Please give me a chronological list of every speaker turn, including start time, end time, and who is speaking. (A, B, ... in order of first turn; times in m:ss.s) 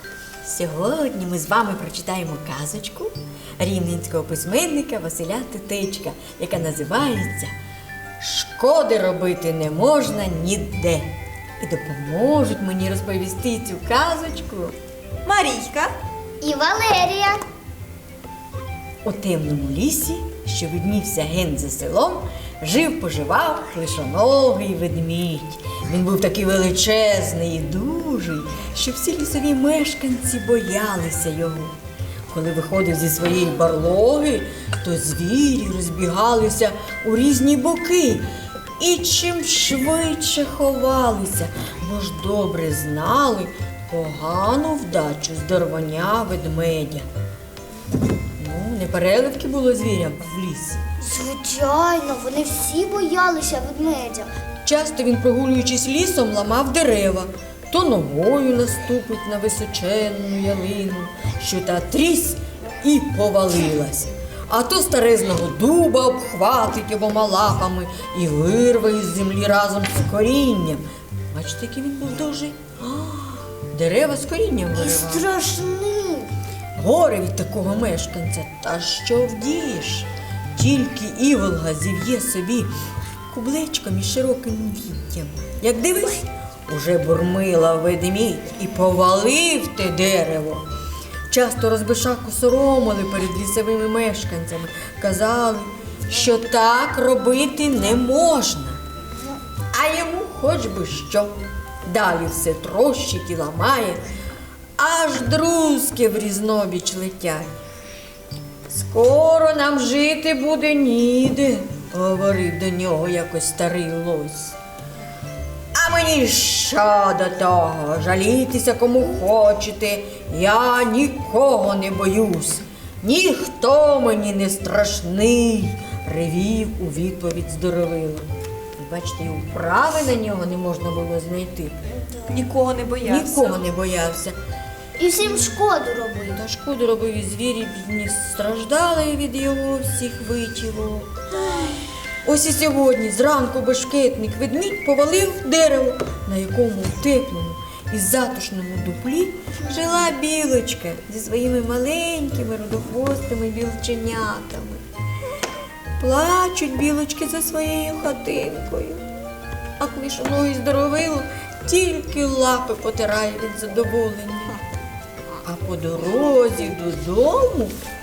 0:00.4-0:07.5 A
0:08.2-0:11.1 A
0:11.6-0:14.7 A
0:15.2-0:16.0 B
0:16.4-0:17.4 C
0:19.0-0:31.8 A
0:32.3-0:38.3 A
0:38.8-0:47.0 A
0:48.4-0:50.8 A
0:51.0-0:54.3 C
0:54.6-1:15.3 A
1:14.7-1:16.3 C
1:16.8-1:22.7 A
1:23.3-1:30.6 A
1:31.3-1:38.8 A
1:39.7-1:41.3 A
1:41.8-1:44.0 A
1:44.8-1:47.5 A
1:48.7-1:54.6 A
1:55.7-2:11.8 A
2:11.9-2:12.2 C
2:12.2-2:13.6 B
2:13.0-2:14.4 A
2:15.0-2:16.4 C
2:15.2-2:15.5 A
2:16.3-2:21.3 A
2:22.2-2:34.8 A
2:36.0-2:39.0 A
2:39.8-2:44.6 A
2:45.4-2:47.7 A